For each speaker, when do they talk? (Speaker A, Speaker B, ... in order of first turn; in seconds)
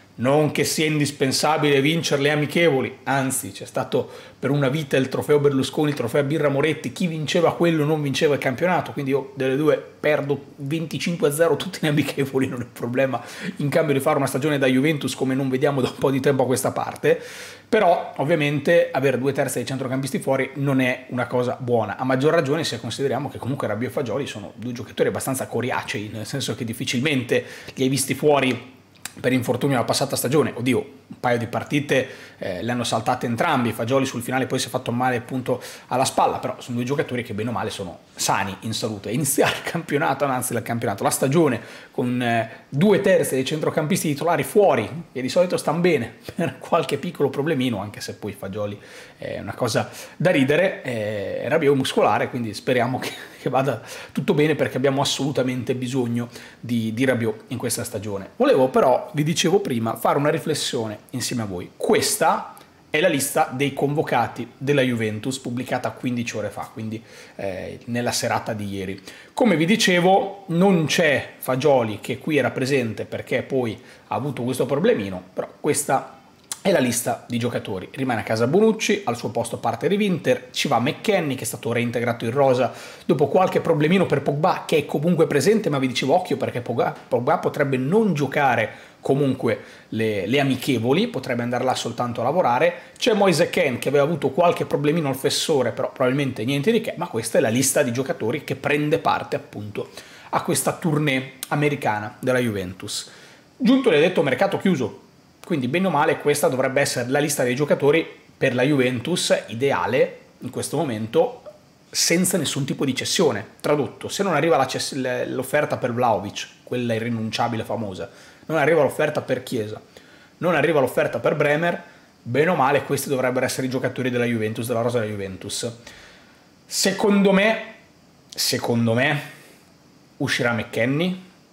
Speaker A: 0.2-119.8, 120.4-125.8, 126.7-127.8, 128.3-129.3, 130.2-131.2